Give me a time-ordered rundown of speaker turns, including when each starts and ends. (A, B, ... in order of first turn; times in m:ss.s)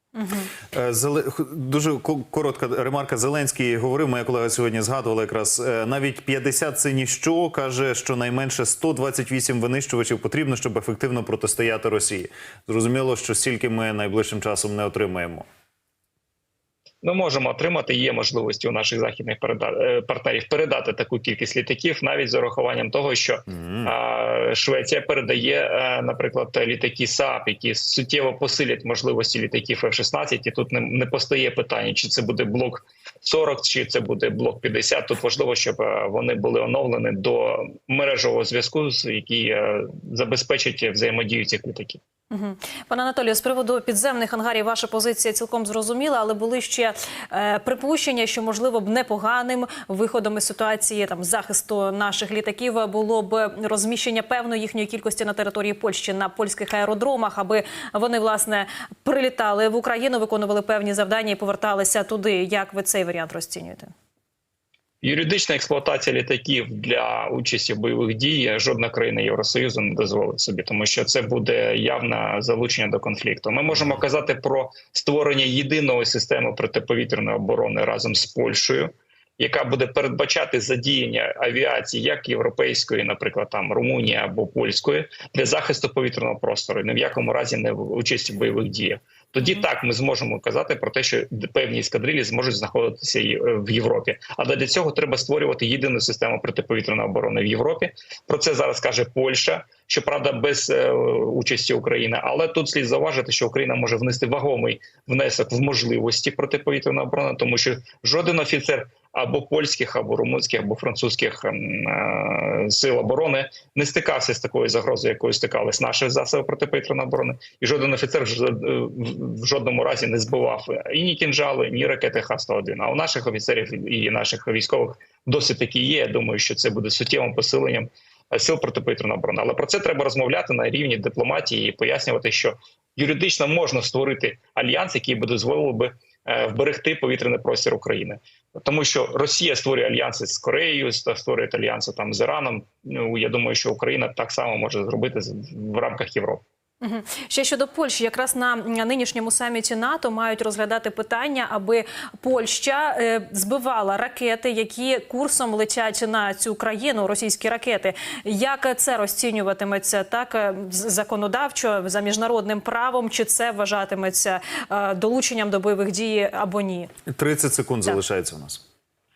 0:00.2-0:00.5 A
0:00.7-0:15.5 B
0:17.0-0:42.0 C
0:23.5-0:23.9 B
0:42.3-1:03.9 A
1:05.0-2:26.4 C
2:26.8-2:46.9 A
2:47.1-2:48.6 B